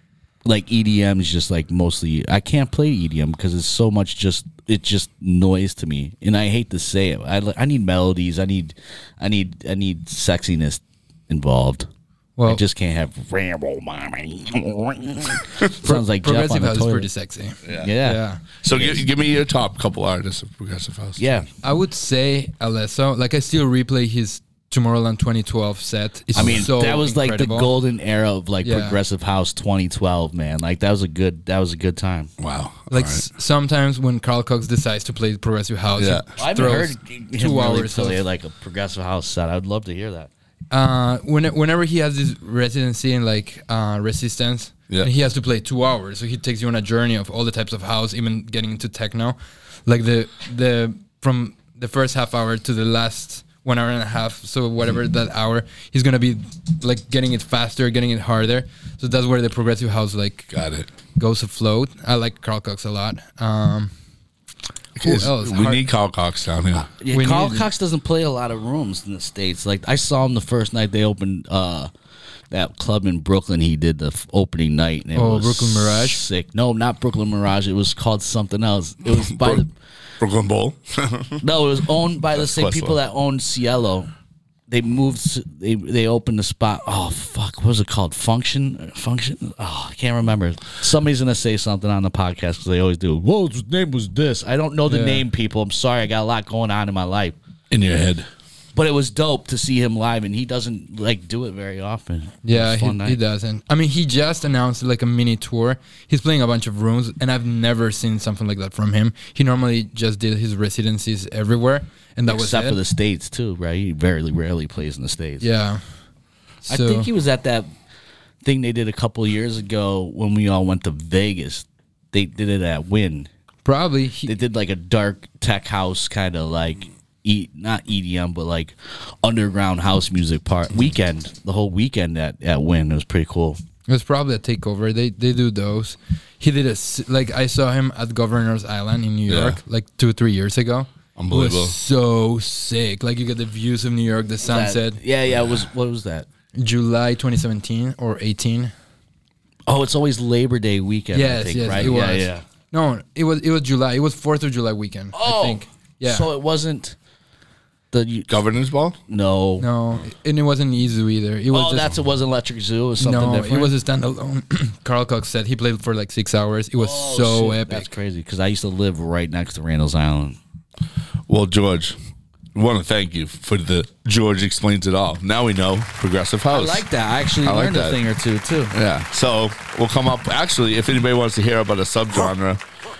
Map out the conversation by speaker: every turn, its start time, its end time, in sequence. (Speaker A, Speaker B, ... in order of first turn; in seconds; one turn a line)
Speaker A: 0.4-11.9
Speaker B: 12.4-12.6
Speaker A: 12.4-17.1
Speaker B: 15.8-18.4
Speaker C: 17.6-17.9
Speaker A: 17.8-19.0
Speaker C: 18.6-21.4
Speaker A: 21.2-21.5
Speaker B: 21.6-27.7
Speaker A: 26.3-32.3
Speaker C: 26.4-26.7
Speaker B: 28.6-29.0
Speaker C: 32.4-33.2
Speaker B: 32.9-38.2
Speaker C: 36.0-36.3
Speaker A: 36.4-40.3
Speaker B: 40.7-60.5
Speaker C: 60.5-60.9
Speaker B: 61.2-63.9
Speaker C: 65.0-66.9
Speaker B: 65.0-65.8
Speaker A: 67.0-71.9
Speaker B: 67.1-67.7
Speaker A: 72.5-79.7
Speaker B: 75.1-76.2
Speaker C: 79.1-79.6
Speaker C: 80.2-81.4
Speaker A: 81.4-84.1
Speaker C: 82.3-83.0
Speaker A: 84.7-97.3
Speaker B: 94.9-95.2
Speaker C: 97.7-98.3
Speaker A: 98.7-103.2
Speaker B: 102.4-112.8
Speaker A: 112.3-115.5
Speaker B: 115.4-115.8
Speaker B: 116.6-117.1
Speaker A: 116.7-117.7
Speaker A: 118.4-123.3
Speaker B: 123.6-124.3
Speaker A: 124.2-133.6
Speaker B: 133.9-145.0
Speaker C: 139.3-139.6
Speaker C: 141.2-141.7
Speaker A: 144.4-146.3
Speaker B: 146.6-148.7
Speaker A: 149.7-152.4
Speaker B: 151.1-156.3
Speaker A: 155.1-156.9
Speaker A: 157.9-158.3
Speaker C: 158.3-159.0
Speaker A: 159.1-159.7
Speaker B: 159.6-161.9
Speaker A: 161.5-163.7
Speaker B: 163.0-167.9
Speaker A: 166.8-170.4
Speaker C: 171.3-172.0
Speaker C: 172.5-176.8
Speaker A: 176.5-178.7
Speaker C: 177.4-178.0
Speaker C: 178.7-182.6